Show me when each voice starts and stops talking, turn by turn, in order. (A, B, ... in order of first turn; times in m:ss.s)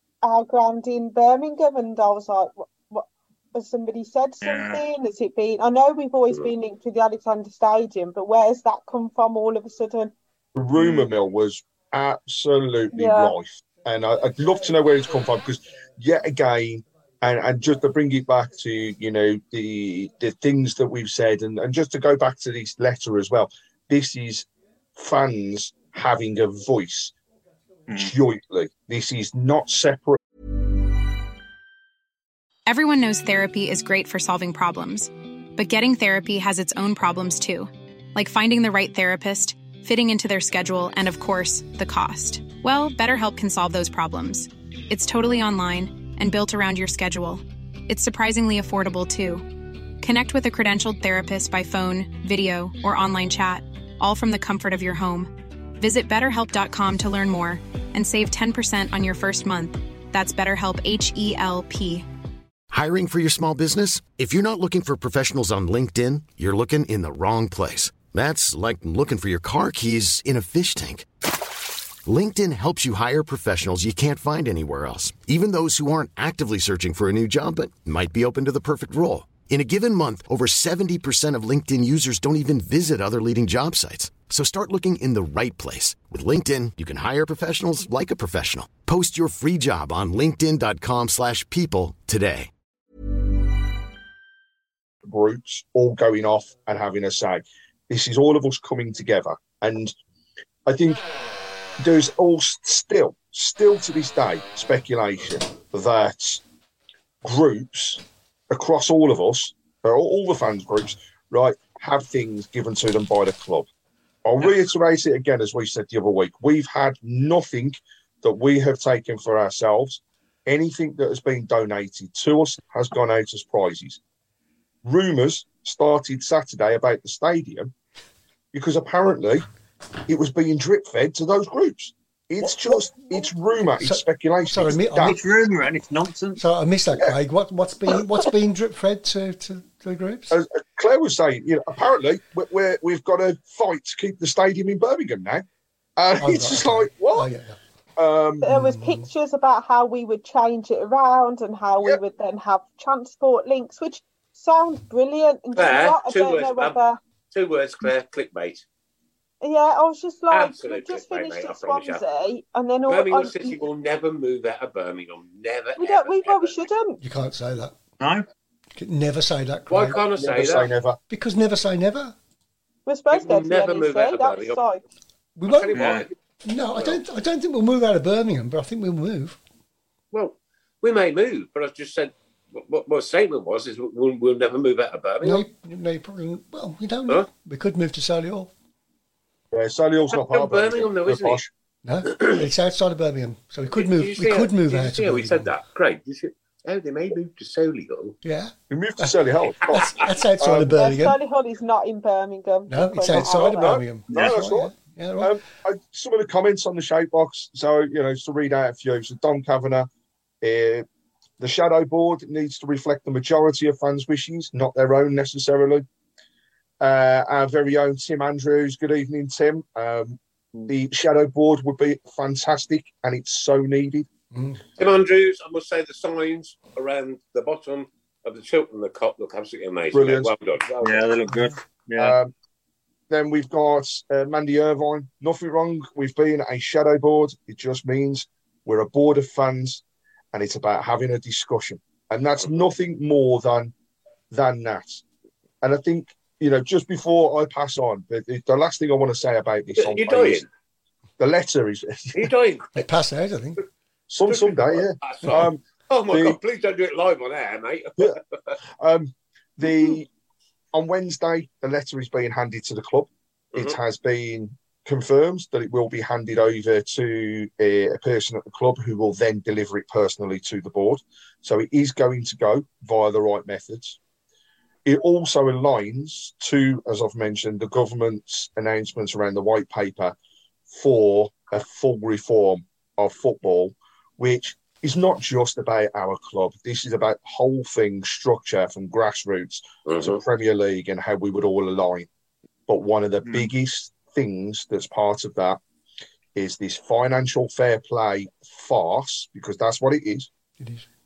0:00.2-0:10.1 A
0:04.4-0:04.8 B
0:10.5-0:27.1 C
0:10.8-0:11.1 B
0:12.9-0:13.3 A
0:27.9-0:30.2 C
0:32.7-0:49.5 D
0:50.0-1:02.0 D
1:02.7-1:11.1 E
1:12.0-1:32.5 E
1:35.0-1:39.9 C
1:40.6-1:41.0 C
1:41.8-1:46.4 C
1:47.2-1:53.7 C
1:54.2-2:04.0 C
2:04.8-2:07.7 C
2:08.5-2:09.4 C
2:10.1-2:15.2 C
2:12.4-2:12.9 F
2:13.8-2:15.2 F
2:15.0-2:16.4 B
2:16.4-2:20.4 F
2:20.3-2:25.4 C
2:26.0-2:27.3 C
2:26.2-2:27.6 F
2:28.0-2:28.5 C
2:28.4-2:37.0 A
2:28.5-2:29.1 F
2:35.5-2:36.8 G
2:37.3-2:38.6 G
2:39.4-2:43.6 A
2:40.3-2:42.0 G
2:42.9-2:46.6 G
2:45.8-2:47.0 A
2:47.0-2:47.8 F
2:48.0-2:48.2 B
2:48.8-2:50.6 F
2:49.7-2:50.7 G
2:50.2-2:51.0 C
2:51.1-2:52.1 F
2:52.9-2:54.8 A
2:53.1-2:54.6 G
2:55.4-2:55.9 F
2:55.5-2:56.1 G
2:55.7-2:56.1 B
2:56.4-2:59.4 F
2:56.7-2:57.0 G
3:00.1-3:05.4 G
3:05.2-3:08.5 F
3:09.5-3:11.5 C
3:10.1-3:11.4 G
3:11.8-3:15.5 F
3:12.0-3:12.4 G
3:13.7-3:18.2 G
3:18.2-3:21.2 F
3:18.7-3:20.7 C
3:19.7-3:20.1 G
3:20.7-3:23.8 A
3:22.7-3:25.4 F
3:23.1-3:29.9 C
3:30.4-3:30.8 C
3:31.4-3:35.8 C
3:36.8-3:44.1 C
3:44.3-3:44.6 F
3:44.8-3:51.3 G
3:49.9-3:50.3 C
3:50.8-3:52.2 B
3:52.0-3:52.3 C
3:53.1-4:03.7 C
4:04.3-4:05.0 C
4:05.6-4:10.4 C
4:09.8-4:10.5 G
4:11.2-4:12.3 C
4:12.1-4:12.9 G
4:12.7-4:13.6 F
4:14.1-4:16.4 C
4:14.3-4:18.6 G
4:18.8-4:20.1 C
4:20.7-4:34.0 C
4:34.8-4:40.1 C
4:40.7-4:52.1 C
4:49.9-4:50.2 G
4:52.7-4:55.6 C
4:56.3-5:00.3 C
5:00.6-5:00.8 F